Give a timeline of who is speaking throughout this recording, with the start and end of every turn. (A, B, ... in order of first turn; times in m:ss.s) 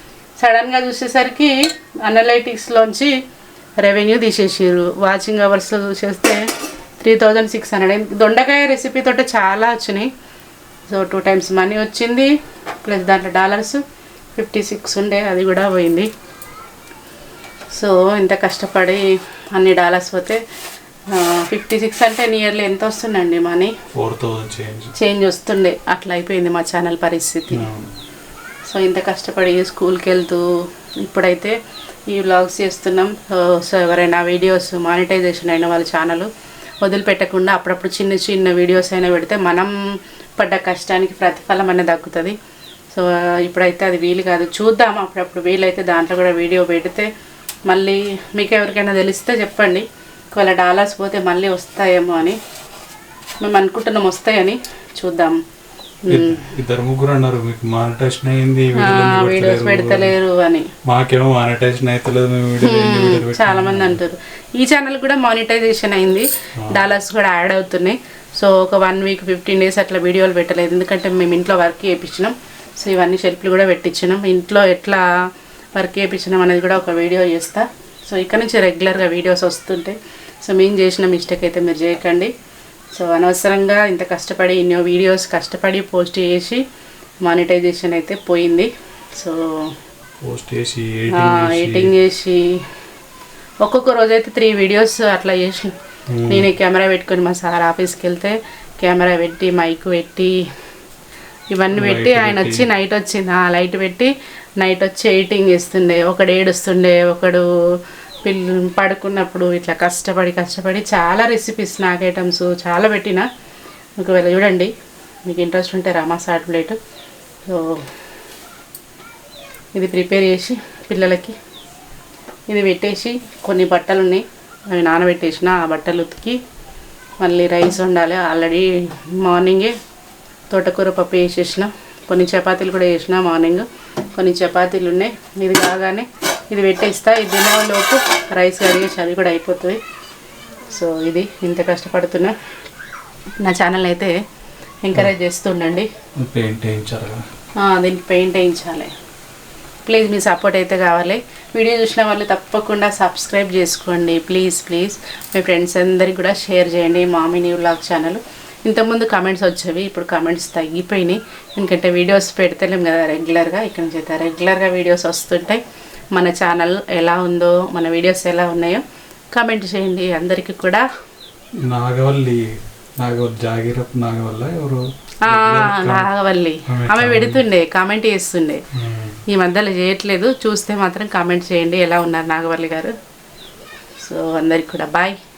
0:00.4-0:03.1 A
0:03.8-0:06.4 A
0:07.0-0:10.1 A
0:10.9-0:12.3 A
0:12.8-0:13.8 A
0:14.4-0:16.1 A
0:17.7-0:19.0 A
0:19.5-0:20.4 A
0:21.1-0:23.7 A
0:23.9-0:24.9 B
0:25.0-0:27.6 A
0:27.5-0:27.9 B
0:28.7-0:30.4 A
0:31.0-0:31.5 A
0:32.1-0:36.3 A
0:36.8-0:39.7 A
0:40.4-0:42.3 A
0:42.9-0:47.1 A
0:47.7-0:52.4 A
0:53.4-0:55.4 A
0:56.0-0:56.5 A
0:56.1-1:00.2 B
0:58.8-1:00.7 A
1:00.8-1:04.0 B
1:02.6-1:15.0 A
1:15.8-1:22.3 A
1:22.9-1:26.6 A
1:27.2-1:29.7 A
1:30.2-1:31.9 B
1:31.1-1:32.5 A
1:33.6-1:35.7 A
1:36.1-1:36.5 B
1:36.3-1:40.4 A
1:41.5-1:47.4 A
1:41.7-1:42.7 B
1:48.2-1:53.2 A
1:54.0-1:54.7 A
1:55.3-1:56.8 A
1:57.5-1:57.8 A
1:59.7-2:01.4 A
2:02.5-2:06.4 A
2:07.2-2:09.7 A
2:10.5-2:19.8 A
2:20.7-2:22.3 A
2:23.4-2:24.1 A
2:24.8-2:25.9 A
2:26.2-2:27.2 B
2:27.6-2:28.9 A
2:29.8-2:45.6 A
2:46.1-2:48.8 A
2:49.3-2:50.8 A
2:51.7-2:52.4 B
2:53.0-2:56.1 B
2:55.2-2:58.6 A
2:56.7-2:57.4 B
2:58.8-2:59.2 B
2:59.3-3:02.9 A
3:04.0-3:05.1 A